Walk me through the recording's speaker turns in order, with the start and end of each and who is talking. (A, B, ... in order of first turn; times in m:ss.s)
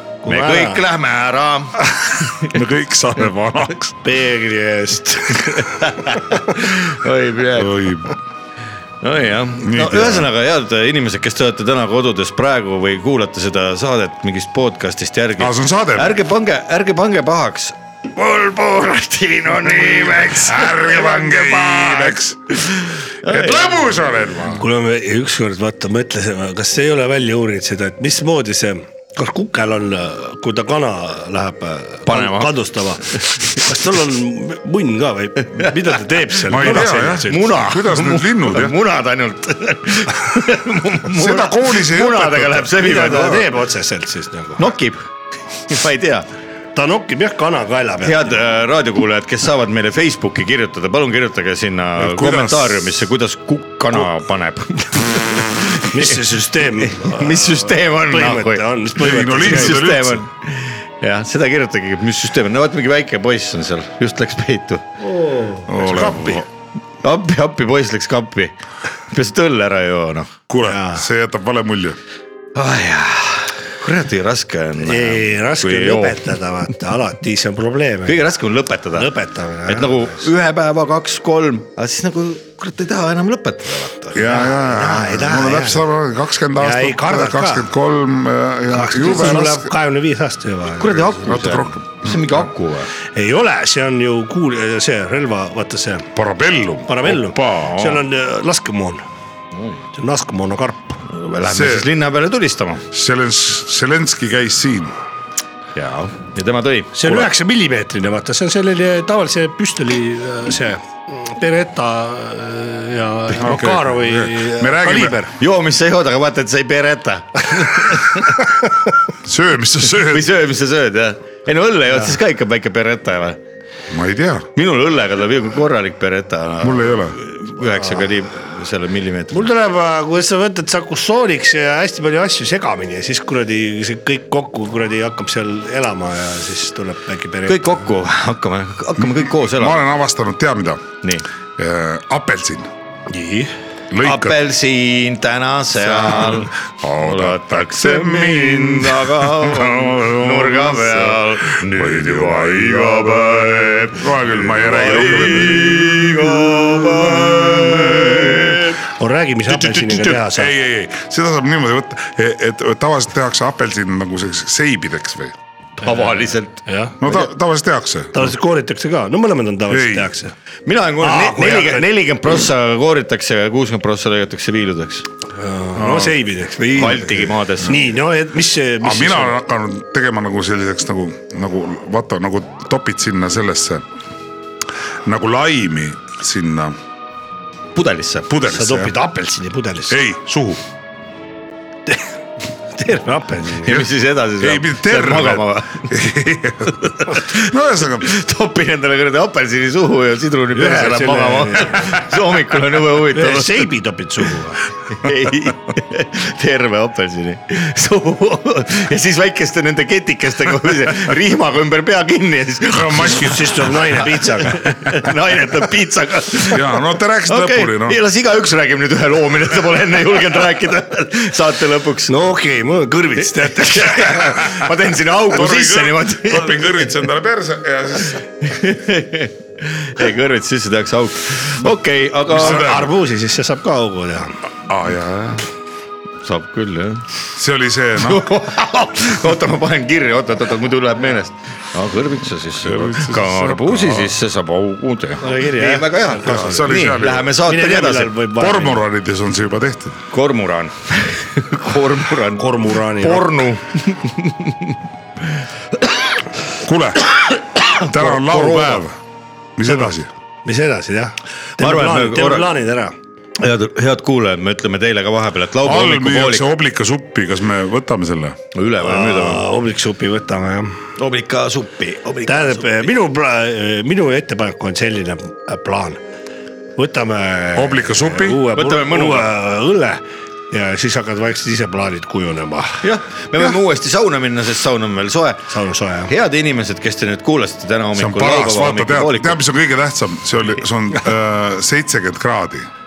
0:00.2-0:00.8 A
0:00.2-0:01.8 B
0:02.0-0:04.0 C
0:04.0-0:05.9 A
0:05.3-0:07.8 B
0:07.6-0:08.2 C
0:09.0-0:20.8 B
0:09.6-0:10.3 C
0:15.4-0:16.1 C
0:20.0-0:22.6 C
0:20.7-0:22.2 A
0:22.7-0:23.8 B
0:23.2-0:24.6 C
0:24.5-0:37.6 A
0:32.0-0:33.6 B
0:36.4-0:43.4 B
0:36.4-0:38.7 C
0:41.1-0:43.2 C
0:42.7-0:44.7 A
0:44.6-0:45.0 B
0:45.7-0:46.3 B
0:46.7-0:48.4 A
0:48.0-0:58.7 B
0:52.0-0:52.9 C
0:55.8-0:59.9 A
0:59.0-1:00.2 C
0:59.3-1:04.9 B
1:05.0-1:06.4 A
1:05.7-1:06.4 C
1:07.0-1:08.5 B
1:09.1-1:10.3 B
1:10.5-1:12.0 C
1:10.6-1:11.0 A
1:12.5-1:16.2 B
1:14.8-1:18.2 A
1:18.0-1:19.1 B
1:18.9-1:20.3 A
1:19.6-1:24.5 B
1:24.1-1:29.7 C
1:24.2-1:25.8 A
1:26.6-1:27.7 A
1:28.7-1:31.1 A
1:30.7-1:32.9 B
1:31.2-1:32.3 C
1:33.1-1:36.1 A
1:36.1-1:37.7 C
1:36.9-1:39.0 A
1:37.6-1:38.0 B
1:39.6-1:39.8 B
1:39.9-1:41.0 A
1:41.0-1:42.8 B
1:41.4-1:41.9 C
1:42.9-1:44.9 C
1:45.7-1:47.2 B
1:46.9-1:55.3 A
1:53.4-1:55.2 C
1:55.3-1:58.4 B
1:59.2-2:00.3 C
2:00.0-2:03.4 B
2:03.9-2:04.5 C
2:04.5-2:09.4 B
2:06.6-2:07.2 C
2:09.3-2:17.9 A
2:17.4-2:19.8 B
2:19.6-2:20.8 C
2:21.6-2:22.7 C
2:23.1-2:23.5 A
2:23.9-2:24.4 C
2:24.0-2:38.8 B
2:26.0-2:38.6 C
2:39.0-2:40.5 A
2:39.5-2:45.3 C
2:45.8-2:46.6 B
2:45.8-2:47.0 A
2:47.0-2:48.3 C
2:48.1-2:50.3 A
2:49.7-2:50.1 C
2:50.6-2:55.1 B
2:51.0-2:51.9 A
2:55.3-2:59.4 A
2:55.8-2:56.2 C
2:56.8-2:57.8 B
2:58.8-3:03.8 C
3:05.0-3:06.8 C
3:07.7-3:08.3 B
3:08.3-3:08.9 C
3:08.5-3:10.0 A
3:09.9-3:10.6 C
3:11.9-3:12.1 A
3:12.7-3:13.9 A
3:13.6-3:15.9 B
3:14.4-3:18.1 C
3:17.1-3:23.7 B
3:20.5-3:22.0 A
3:23.0-3:24.6 A
3:24.9-3:42.2 B
3:32.7-3:33.7 C
3:33.0-3:35.7 A
3:36.5-3:38.0 C
3:42.1-3:44.3 A
3:43.4-3:46.9 B
3:45.3-3:48.2 C
3:48.4-3:52.8 B
3:52.3-3:52.9 C
3:52.3-3:54.4 A
3:54.7-3:55.4 C
3:56.2-3:57.0 B
3:57.3-3:58.3 C
3:58.0-4:08.1 B
4:02.6-4:04.1 C
4:05.2-4:06.8 A
4:06.2-4:07.3 C
4:07.4-4:08.8 A
4:08.4-4:10.0 C
4:10.1-4:14.8 B
4:12.4-4:13.4 A
4:16.6-4:17.1 C
4:17.6-4:19.0 C
4:17.7-4:18.8 B
4:19.6-4:20.1 C
4:20.4-4:22.9 A
4:21.6-4:22.5 B
4:23.4-4:26.5 B
4:25.6-4:28.4 C
4:28.5-4:29.4 B
4:28.8-4:30.8 A
4:31.0-4:32.9 B
4:32.2-4:36.0 A
4:36.8-4:42.8 A
4:37.5-4:38.5 C
4:38.5-4:39.3 B
4:42.8-4:45.5 B
4:45.5-4:46.1 A
4:46.0-4:49.4 B
4:47.9-4:52.7 C